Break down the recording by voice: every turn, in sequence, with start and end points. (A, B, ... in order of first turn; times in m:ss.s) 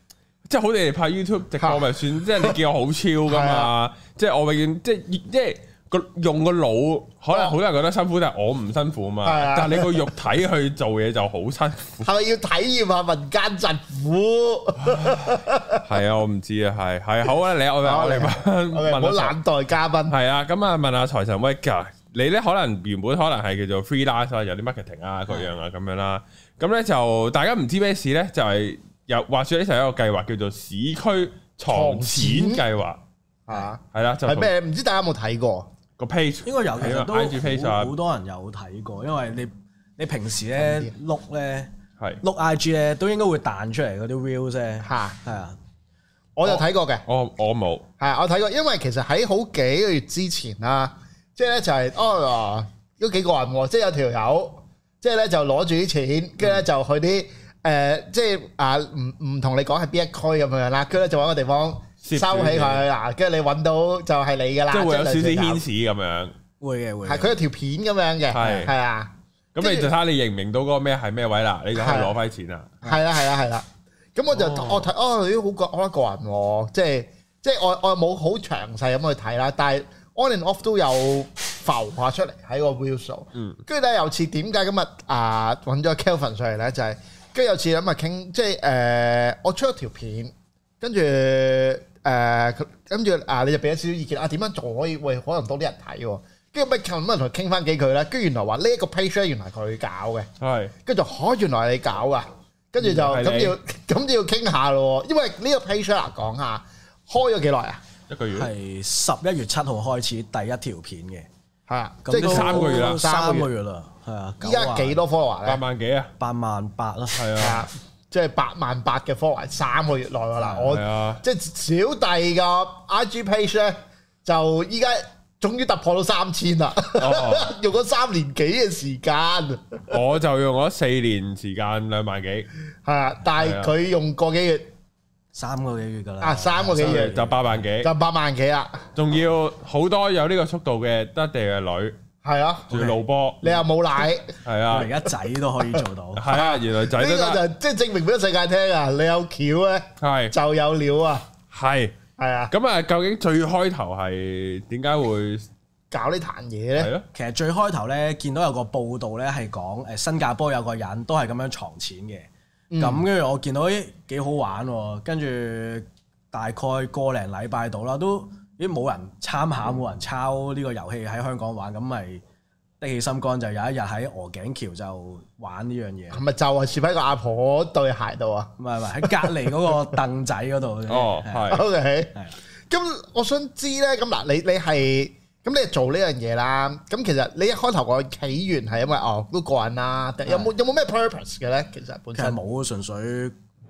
0:00.5-0:12.1 A
0:03.3-0:03.7 B
0:09.2-0:10.1 B
0:12.0-0:15.8 B
0:15.8-0:19.3 A
0:17.8-0:20.2 B
0:20.1-0:33.0 A
0:31.7-0:32.6 B
0:33.5-0:35.7 B
0:33.9-0:34.5 A
0:36.0-0:37.9 A
0:36.4-0:45.6 C
0:40.6-0:40.9 B
0:44.8-0:45.2 B
0:46.4-0:47.0 B
0:46.4-0:47.8 A
0:48.0-1:05.6 B
1:02.0-1:02.8 A
1:04.7-1:06.3 A
1:06.6-1:07.3 C
1:07.0-1:09.9 B
1:08.3-1:08.7 A
1:09.5-1:12.7 A
1:11.8-1:12.1 B
1:12.8-1:40.3 B
1:14.3-1:14.8 A
1:40.4-1:40.7 A
1:40.8-1:47.8 B
1:43.0-1:43.6 A
1:48.1-1:48.5 A
1:48.3-1:51.3 C
1:51.7-1:53.5 B
1:52.0-1:55.0 C
1:52.2-1:53.0 A
1:54.4-1:55.6 B
1:55.4-1:56.1 A
1:56.2-1:57.2 C
1:57.1-1:57.7 A
1:57.4-2:09.8 B
2:00.4-2:01.2 A
2:07.0-2:07.5 A
2:09.9-2:12.5 A
2:12.8-2:14.7 B
2:13.4-2:13.7 A
2:15.3-2:17.5 C
2:16.2-2:17.2 B
2:16.8-2:17.9 A
2:17.8-2:18.8 B
2:18.9-2:21.9 A
2:22.2-2:22.7 B
2:22.7-2:23.5 A
2:22.7-2:23.0 C
2:23.4-2:24.3 B
2:24.4-2:24.9 A
2:24.7-2:26.2 C
2:25.6-2:31.2 B
2:26.2-2:27.4 A
2:30.0-2:30.3 A
2:31.5-2:31.9 A
2:32.2-2:32.5 B
2:32.5-2:35.5 A
2:35.9-2:36.9 B
2:36.8-2:37.0 A
2:37.1-2:42.3 C
2:42.7-2:43.0 B
2:42.8-2:52.2 C
2:52.8-2:56.2 C
2:56.1-2:59.3 B
2:58.6-3:01.6 C
3:00.9-3:01.6 A
3:01.5-3:02.1 B
3:02.7-3:12.4 B
3:12.2-3:13.4 C